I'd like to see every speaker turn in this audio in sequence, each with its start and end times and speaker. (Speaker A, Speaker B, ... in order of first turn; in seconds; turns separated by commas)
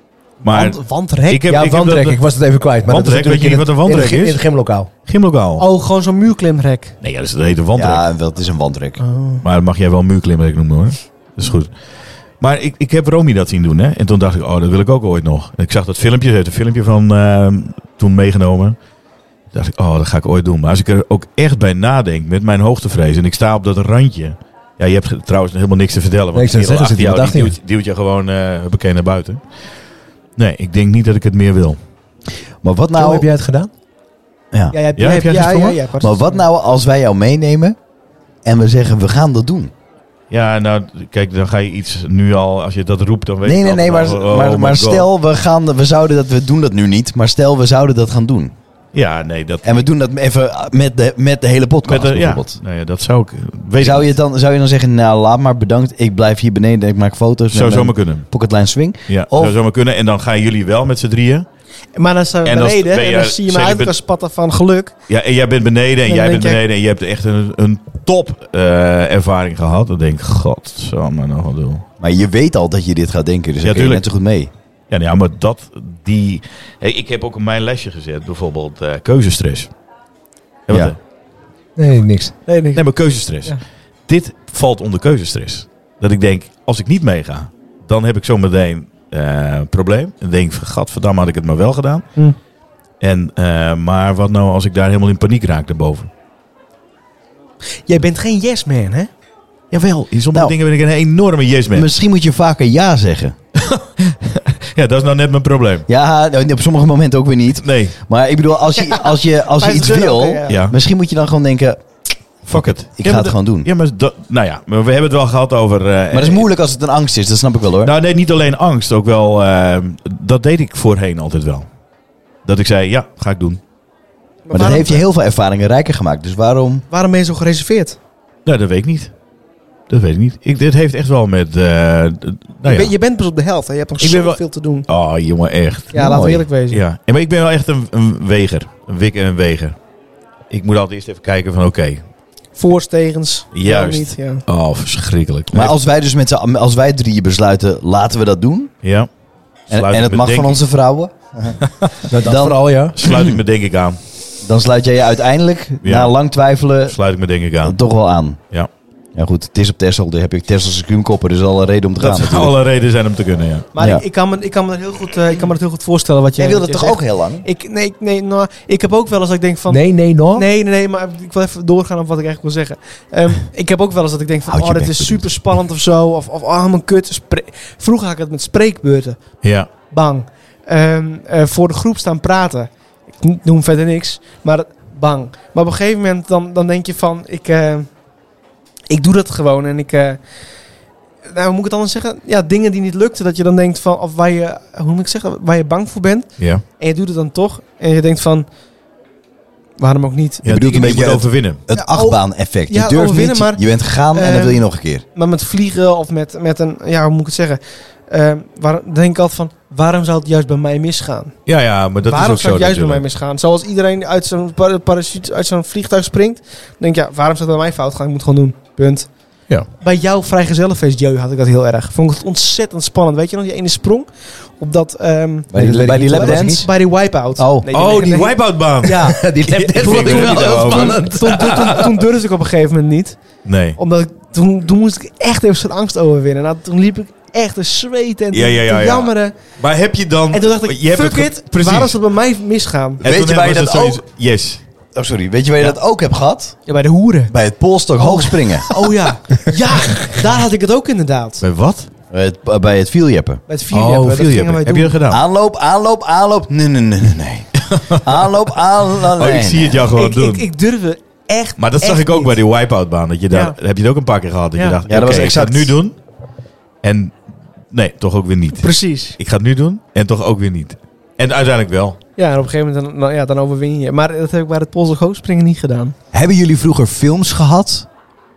Speaker A: 0.4-2.2, Speaker B: 0.4-1.5, Speaker C: 1.5-4.9, Speaker A: 2.9-4.4, Speaker A: 5.1-5.7, Speaker B: 5.6-7.0, Speaker A: 7.0-8.1, Speaker D: 7.8-9.0, Speaker B: 9.0-9.4, Speaker A: 9.4-11.7, Speaker A: 12.4-18.8, Speaker A: 19.5-29.4, Speaker C: 26.3-27.6, Speaker A: 30.4-31.8, Speaker D: 32.6-33.3, Speaker C: 33.0-33.7, Speaker D: 34.5-34.8, Speaker B: 34.7-36.4, Speaker A: 35.0-35.8, Speaker D: 36.0-37.8, Speaker D: 38.5-39.7, Speaker A: 40.3-45.1, Speaker D: 43.5-48.5, Speaker A: 48.9-49.9, Speaker D: 49.6-52.6, Speaker A: 51.9-54.1, Speaker D: 53.8-59.6, Speaker A: 57.5-58.3, Speaker A: 59.1-61.5, Speaker B: 62.0-65.0, Speaker A: 62.5-64.0, Speaker A: 65.1-71.8, Speaker B: 66.1-66.6, Speaker D: 72.0-74.5, Speaker A: 73.6-74.1, Speaker A: 74.9-79.7, Speaker A: 80.7-81.0, Speaker D: 80.7-80.9, Speaker C: 81.8-82.3, Speaker B: 82.5-82.8, Speaker A: 82.7-92.1, Speaker A: 93.0-96.1, Speaker B: 97.9-99.1, Speaker A: 99.7-101.9, Speaker D: 101.7-103.4, Speaker A: 103.6-105.9, Speaker D: 105.9-111.8, Speaker A: 107.6-108.0, Speaker B: 108.8-110.6, Speaker A: 110.5-110.7, Speaker D: 112.4-113.7, Speaker A: 112.5-116.5, Speaker D: 116.1-117.9, Speaker A: 117.8-121.7, Speaker A: 122.5-123.6, Speaker B: 124.5-125.0, Speaker D: 124.5-126.8, Speaker B: 126.9-128.0, Speaker A: 128.4-129.1, Speaker A: 129.9-132.9, Speaker B: 132.7-134.9, Speaker A: 134.0-139.8, Speaker B: 135.9-136.8, Speaker D: 135.9-136.4, Speaker A: 140.5-142.0, Speaker B: 142.6-144.4, Speaker A: 143.5-145.8, Speaker D: 145.5-148.7, Speaker A: 148.8-149.1, Speaker A: 149.7-150.6, Speaker D: 149.7-153.4, Speaker C: 152.1-153.0, Speaker A: 153.0-154.0, Speaker D: 154.4-157.0, Speaker A: 155.8-156.1, Speaker A: 156.9-157.8, Speaker D: 157.6-158.4, Speaker D: 159.2-162.6, Speaker A: 162.0-163.7, Speaker B: 163.7-187.9, Speaker D: 163.8-164.0, Speaker D: 166.4-167.5, Speaker C: 169.7-170.5, Speaker D: 174.5-175.3, Speaker A: 179.4-179.7, Speaker B: 188.9-190.2, Speaker B: 191.3-198.5, Speaker A: 196.4-196.6, Speaker B: 199.8-200.8, Speaker A: 200.4-201.6, Speaker D: 200.4-205.0, Speaker B: 201.7-211.4, Speaker A: 211.5-213.1, Speaker B: 212.1-219.1, Speaker B: 219.8-225.5, Speaker D: 225.5-226.7, Speaker C: 225.5-226.7, Speaker B: 226.1-233.2, Speaker D: 227.4-227.7, Speaker A: 227.7-231.1, Speaker C: 228.9-232.0, Speaker A: 233.4-233.8, Speaker B: 233.8-239.3, Speaker A: 238.3-242.0, Speaker B: 240.3-243.0, Speaker A: 243.0-244.6, Speaker D: 243.0-244.0, Speaker D: 244.9-246.6, Speaker B: 246.7-247.3, Speaker D: 247.3-248.7, Speaker B: 248.0-251.4, Speaker A: 251.4-251.9, Speaker D: 252.1-253.4, Speaker B: 253.5-255.0, Speaker A: 253.7-255.2, Speaker D: 255.1-259.9, Speaker A: 257.7-258.0, Speaker A: 259.1-260.5, Speaker B: 259.9-262.4, Speaker A: 261.6-265.9, Speaker D: 264.9-265.7, Speaker A: 266.8-267.1, Speaker A: 267.7-272.0, Speaker B: 268.6-269.2, Speaker B: 272.2-275.9, Speaker D: 276.1-277.9